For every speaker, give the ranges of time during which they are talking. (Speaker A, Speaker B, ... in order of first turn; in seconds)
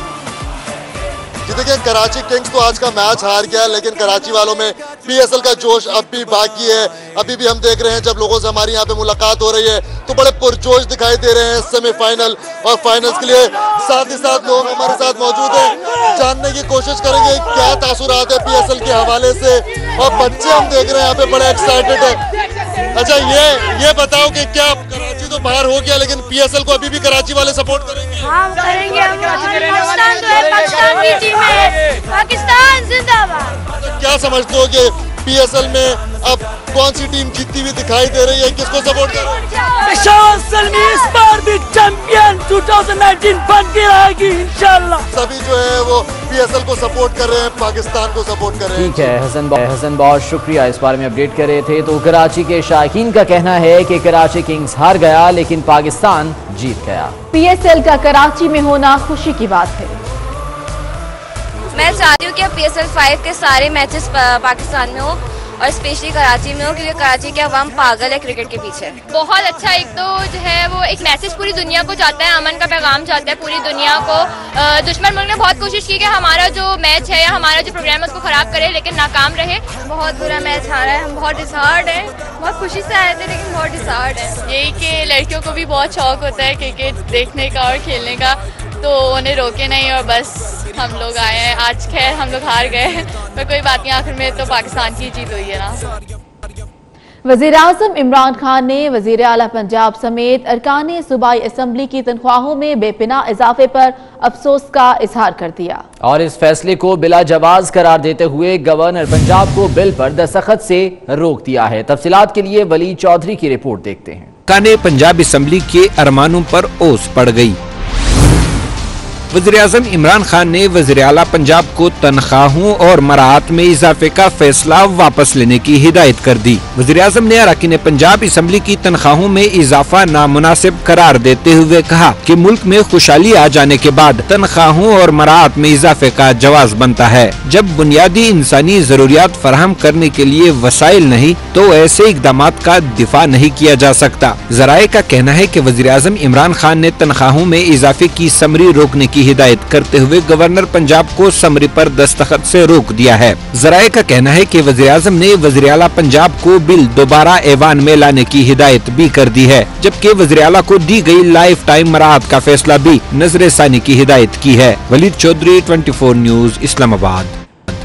Speaker A: 1.5-22.2, 22.9-28.3, 33.9-39.5, 45.1-49.1
Speaker B: 30.5-31.0, 61.7-84.4
Speaker C: 39.8-45.1
Speaker D: 48.8-57.2, 106.0-114.3
Speaker E: 57.3-60.0, 97.2-105.8
Speaker F: 84.4-95.8
Speaker G: 114.5-117.6, 119.3-167.3